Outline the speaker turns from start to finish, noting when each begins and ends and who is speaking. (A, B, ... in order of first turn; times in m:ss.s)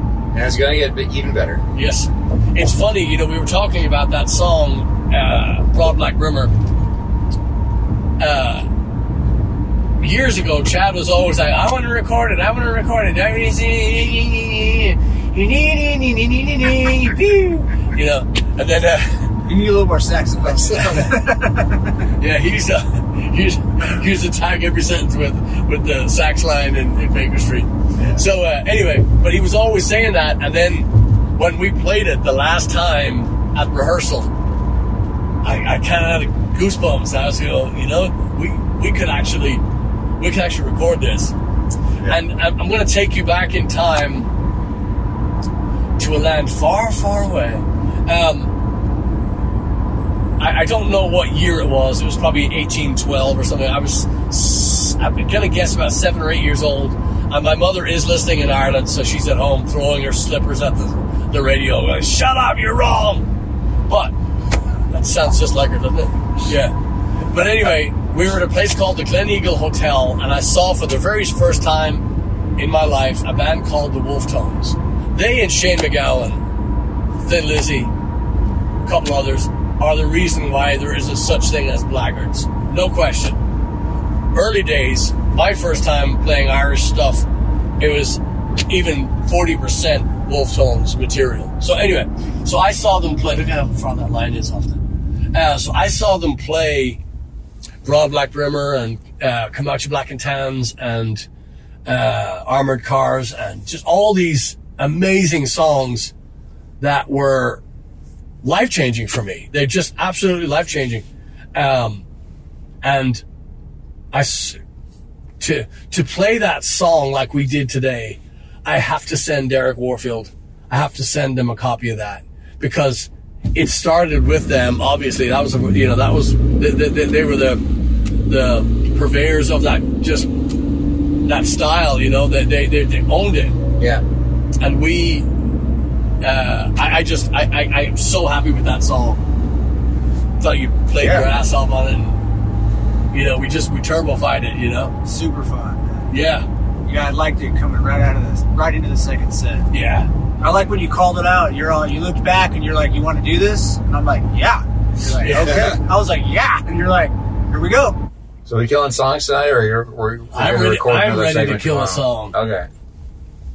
0:00.3-0:01.6 A
0:01.7-0:06.5 B
0:08.2-0:08.7 B
0:10.0-0:19.4 B
0:19.4-0:22.1 C
0:20.6-0:21.2 B
0:22.2-0:34.3 B
0:35.4-0:39.6 B
0:40.2-0:41.3 B
0:42.0-0:44.3 B
0:46.0-0:48.5 B
0:50.4-1:03.3 B
1:03.9-1:04.1 B
1:04.9-1:06.7 B
1:07.3-1:12.0 B
1:12.6-1:16.4 B
1:17.2-1:17.9 B
1:18.8-1:23.4 B
1:24.3-1:27.2 B
1:27.8-1:34.8 B
1:35.3-1:37.0 B
1:37.8-1:41.3 B
1:41.8-1:46.1 B
1:46.8-1:47.6 B
1:48.4-1:52.0 B
1:52.8-1:53.2 B
1:54.1-1:54.6 B
1:55.4-2:07.6 B
2:08.2-2:10.3 B
2:11.2-2:13.6 B
2:13.8-2:14.0 A
2:14.6-2:15.3 B
2:16.2-2:19.2 B
2:20.4-2:22.2 B
2:21.0-2:21.3 C
2:23.1-2:24.9 B
2:25.0-2:26.1 C
2:26.1-2:26.4 B
2:26.8-2:29.7 C
2:29.7-2:30.1 B
2:30.4-2:38.0 C
2:35.2-2:35.7 B
2:35.3-2:35.8 A
2:38.4-2:42.7 A
2:40.3-2:42.4 B